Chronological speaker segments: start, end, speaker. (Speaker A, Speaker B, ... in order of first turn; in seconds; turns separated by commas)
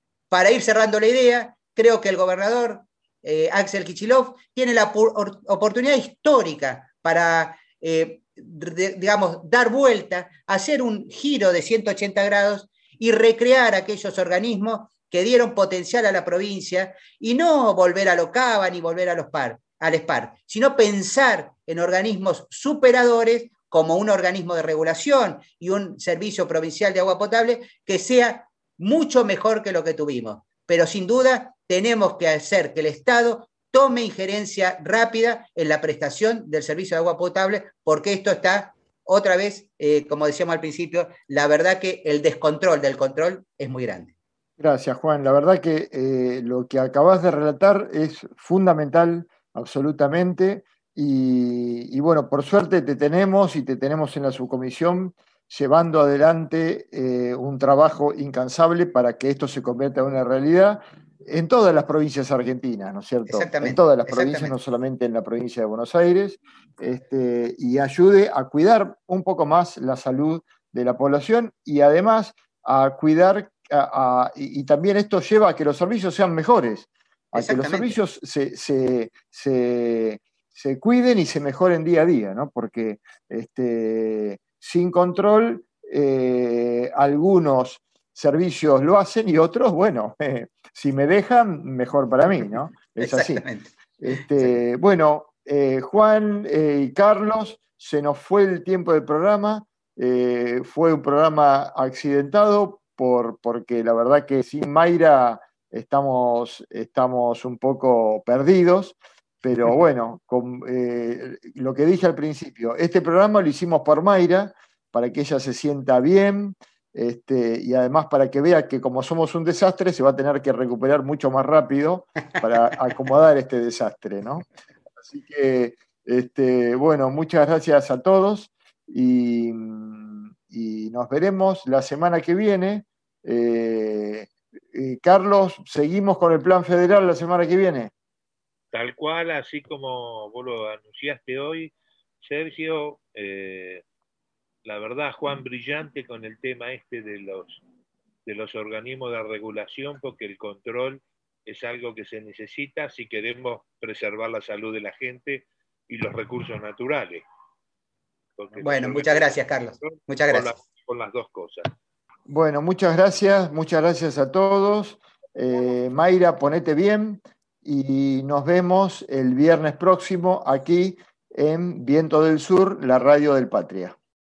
Speaker A: 0.3-44.1, Speaker B: 44.6-93.5, Speaker A: 63.3-64.5, Speaker A: 77.3-78.0, Speaker A: 93.0-94.5, Speaker B: 94.0-124.5, Speaker B: 125.0-137.9, Speaker C: 138.7-143.8, Speaker C: 144.7-147.6, Speaker C: 148.3-157.2, Speaker C: 158.4-161.7, Speaker A: 158.6-160.5, Speaker B: 162.3-174.0